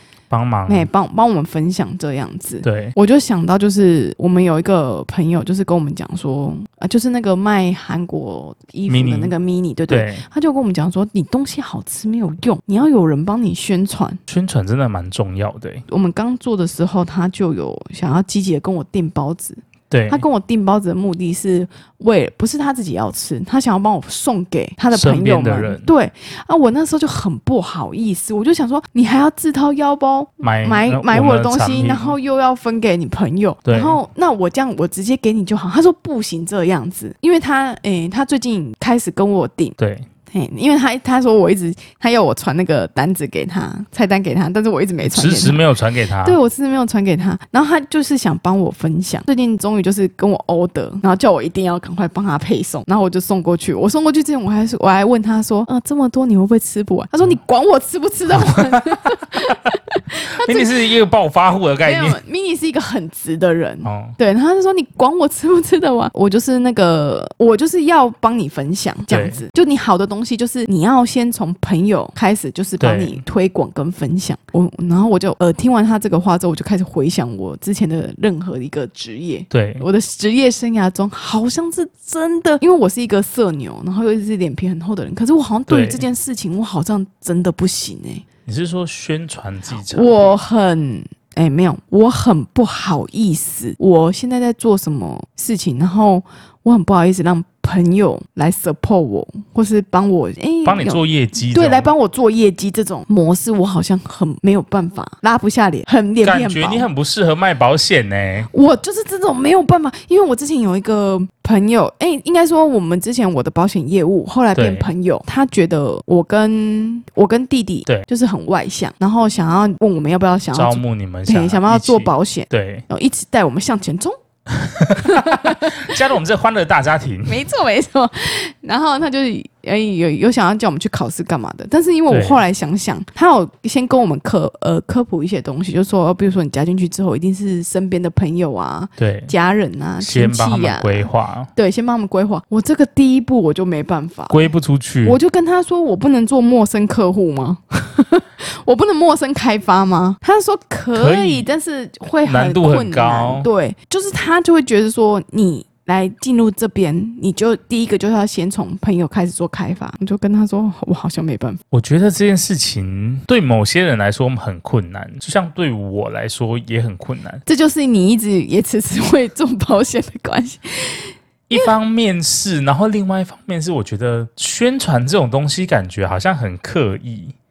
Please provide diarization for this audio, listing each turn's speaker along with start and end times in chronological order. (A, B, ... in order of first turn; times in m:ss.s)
0:00.3-0:00.9 A
0:00.7-0:14.2 B
0:02.6-0:02.9 A
0:08.9-0:09.3 A
0:09.9-0:10.2 A
0:14.3-0:15.8 A
0:15.9-0:39.8 B
0:19.9-0:20.2 A
0:24.9-0:25.9 A
0:30.4-0:32.1 A
0:33.6-0:34.0 A
0:39.8-0:40.1 A
0:40.3-0:45.6 B
0:45.1-0:46.4 A
0:46.2-1:00.7 B
0:58.3-0:59.0 A
1:00.4-1:02.2 A
1:01.8-1:28.2 B
1:03.8-1:04.2 A
1:09.1-1:09.4 A
1:12.8-1:13.2 A
1:19.5-1:19.8 A
1:25.7-1:26.0 A
1:28.4-1:30.4 A
1:29.9-1:46.9 B
1:40.6-1:41.9 A
1:46.2-1:48.5 A
1:48.5-2:04.1 B
1:54.5-1:54.9 A
2:00.5-2:02.8 A
2:04.5-2:07.4 A
2:05.0-2:06.0 B
2:07.2-2:24.5 B
2:12.1-2:12.4 A
2:19.0-2:19.3 A
2:20.0-2:21.5 A
2:24.3-2:25.2 A
2:25.0-2:41.6 B
2:30.9-2:31.5 A
2:32.2-2:33.5 A
2:41.7-2:47.4 A
2:47.4-2:51.7 B
2:51.5-2:57.3 A